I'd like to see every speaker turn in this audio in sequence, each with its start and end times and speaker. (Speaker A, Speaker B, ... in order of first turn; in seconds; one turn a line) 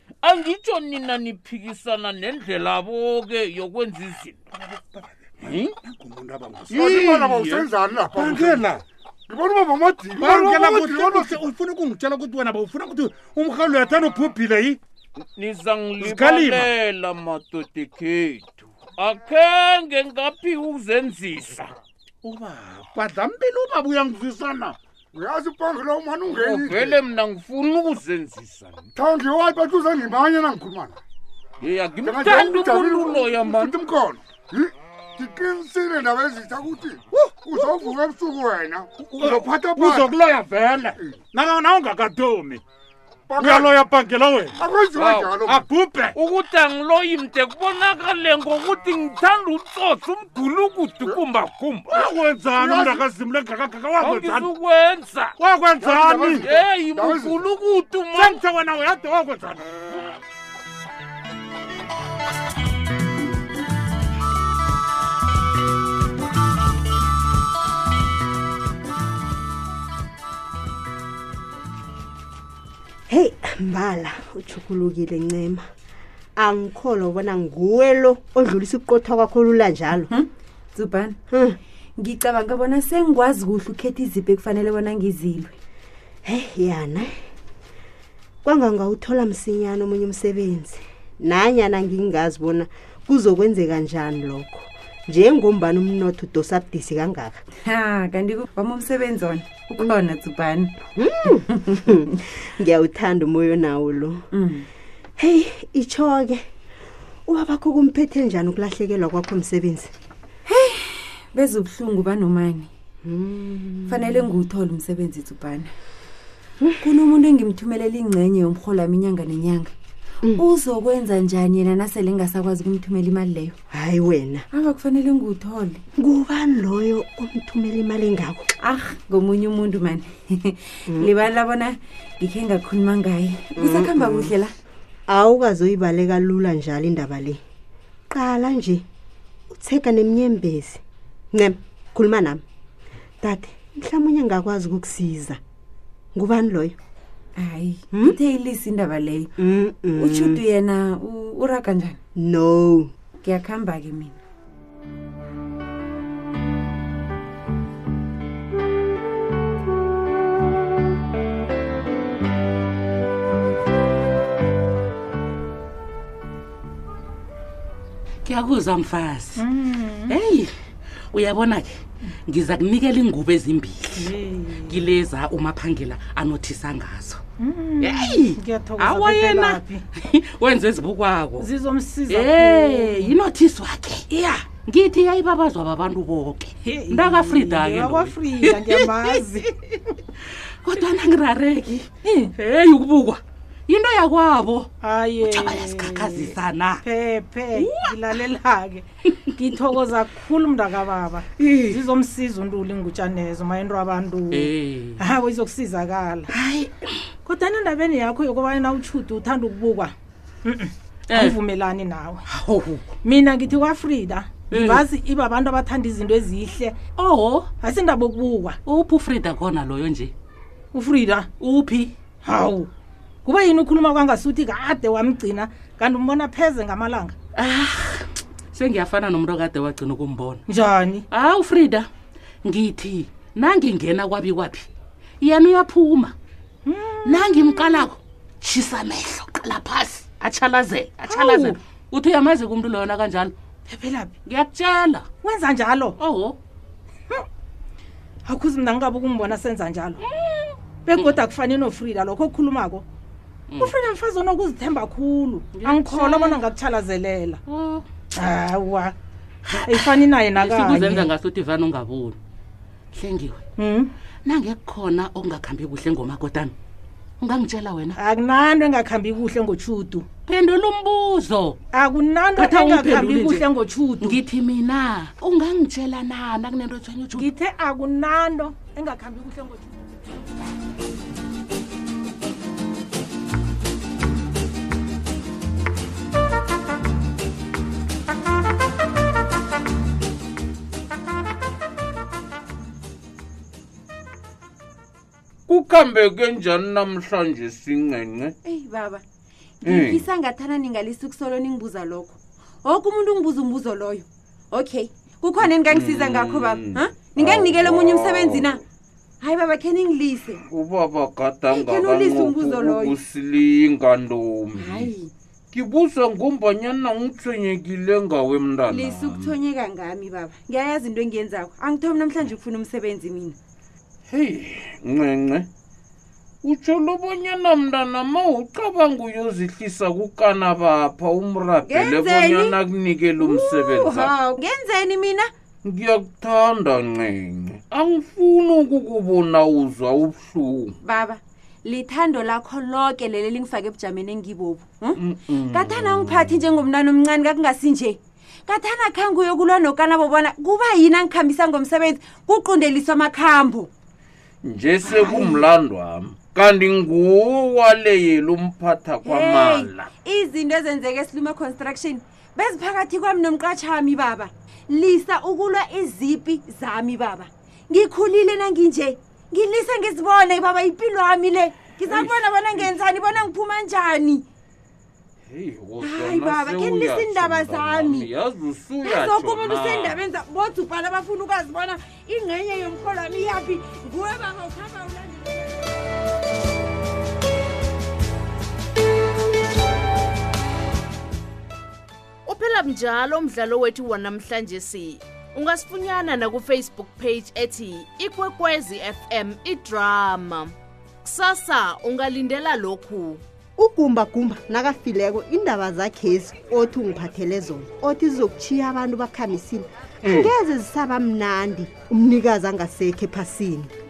Speaker A: 0.2-4.4
Speaker B: 4.6-7.1
Speaker C: 6.7-8.7
Speaker A: 6.8-7.7
Speaker B: 8.1-8.8
Speaker C: 9.3-11.4
Speaker B: 10.2-14.8
Speaker A: 15.3-21.7
Speaker B: 16.0-16.7
Speaker B: 22.2-24.8
Speaker C: 25.1-27.0
Speaker A: 26.3-28.9
Speaker C: 28.9-31.0
Speaker A: 31.6-33.8
Speaker C: 32.0-40.1
Speaker B: 37.5-37.8
Speaker B: 39.0-42.6
Speaker C: 43.3-43.8
Speaker B: 43.4-44.6
Speaker C: 44.6-45.7
Speaker A: 45.0-45.4
Speaker B: 45.5-46.1
Speaker A: 46.2-52.0
Speaker B: 51.9-54.5
Speaker C: 52.6-53.0
Speaker A: 54.0-55.4
Speaker B: 55.4-56.5
Speaker C: 55.8-57.4
Speaker A: 56.4-58.4
Speaker B: 58.1-59.7
Speaker D: 73.1-75.7
Speaker D: 76.4-80.1
Speaker E: 80.0-81.2
Speaker D: 81.3-81.6
Speaker E: 82.0-85.6
Speaker D: 86.2-87.2
Speaker D: 88.4-97.4
Speaker E: 97.6-100.8
Speaker D: 101.0-104.2
Speaker E: 101.5-101.9
Speaker E: 104.3-104.7
Speaker D: 105.2-106.5
Speaker D: 107.3-109.9
Speaker E: 110.5-112.7
Speaker D: 113.0-114.2
Speaker E: 113.9-115.7
Speaker E: 116.8-119.7
Speaker E: 120.4-123.6
Speaker D: 123.7-124.5
Speaker E: 124.5-125.8
Speaker D: 126.0-128.5
Speaker E: 128.6-134.5
Speaker D: 130.9-131.1
Speaker D: 133.6-134.3
Speaker D: 135.1-137.4
Speaker D: 138.1-138.8
Speaker D: 139.5-140.8
Speaker D: 141.3-142.4
Speaker D: 143.2-145.4
Speaker D: 146.2-146.8
Speaker E: 147.4-149.3
Speaker D: 147.9-148.2
Speaker D: 149.4-150.4
Speaker E: 149.9-152.0
Speaker D: 152.2-152.9
Speaker E: 153.2-154.2
Speaker F: 168.2-169.5
Speaker G: 169.4-170.2
Speaker F: 170.1-170.5
Speaker F: 171.1-174.1
Speaker G: 173.9-174.8
Speaker F: 174.7-177.2
Speaker G: 177.4-179.8
Speaker F: 177.8-181.5
Speaker G: 181.4-183.2
Speaker F: 182.1-184.1
Speaker G: 184.1-184.5
Speaker F: 184.7-189.1
Speaker G: 186.6-189.5
Speaker F: 190.6-194.7
Speaker G: 192.0-192.3
Speaker G: 194.8-206.3
Speaker F: 195.2-196.8
Speaker F: 197.6-197.9
Speaker E: 201.4-201.8
Speaker F: 204.3-205.0
Speaker G: 207.2-209.9
Speaker G: 210.4-212.2
Speaker F: 211.1-211.4
Speaker F: 212.3-212.8
Speaker G: 213.0-218.6
Speaker F: 214.5-214.9
Speaker F: 218.7-220.1
Speaker G: 220.7-222.7
Speaker G: 223.2-227.2
Speaker F: 227.4-230.4
Speaker G: 230.5-231.1
Speaker F: 231.1-231.9
Speaker F: 232.4-234.7
Speaker F: 235.2-236.2
Speaker G: 236.7-237.8
Speaker F: 237.1-243.3
Speaker G: 241.1-241.6
Speaker G: 243.7-244.1
Speaker F: 244.3-245.1
Speaker G: 245.2-246.0
Speaker F: 246.0-246.4
Speaker G: 248.2-250.0
Speaker F: 250.0-251.1
Speaker G: 250.8-252.8
Speaker G: 253.6-257.4
Speaker F: 255.5-256.4
Speaker F: 257.5-257.9
Speaker G: 258.1-258.9
Speaker F: 259.5-262.2
Speaker G: 259.7-261.1
Speaker F: 262.9-263.4
Speaker G: 263.6-263.9
Speaker F: 264.2-266.5
Speaker F: 267.2-268.0
Speaker G: 268.0-270.1
Speaker F: 270.3-271.6
Speaker G: 271.7-274.2
Speaker F: 272.4-273.4
Speaker F: 274.0-277.3
Speaker G: 277.1-279.9
Speaker A: 295.5-298.4
Speaker E: 298.4-299.1
Speaker E: 299.6-308.6
Speaker A: 299.6-300.1
Speaker A: 305.4-308.6
Speaker E: 309.2-310.4
Speaker A: 310.5-314.9
Speaker E: 311.5-313.0
Speaker E: 314.6-315.1
Speaker A: 315.5-319.4
Speaker E: 318.7-323.4
Speaker A: 324.1-325.5
Speaker A: 326.4-334.1
Speaker E: 331.7-332.6
Speaker E: 333.2-335.3
Speaker A: 335.7-340.8
Speaker E: 340.8-353.7
Speaker A: 345.0-346.5
Speaker A: 354.4-359.9
Speaker E: 354.8-355.5
Speaker E: 359.0-374.3
Speaker A: 371.8-372.7
Speaker A: 375.3-380.0
Speaker E: 375.8-378.1
Speaker E: 378.8-385.8
Speaker H: 392.3-403.2
Speaker D: 403.6-413.7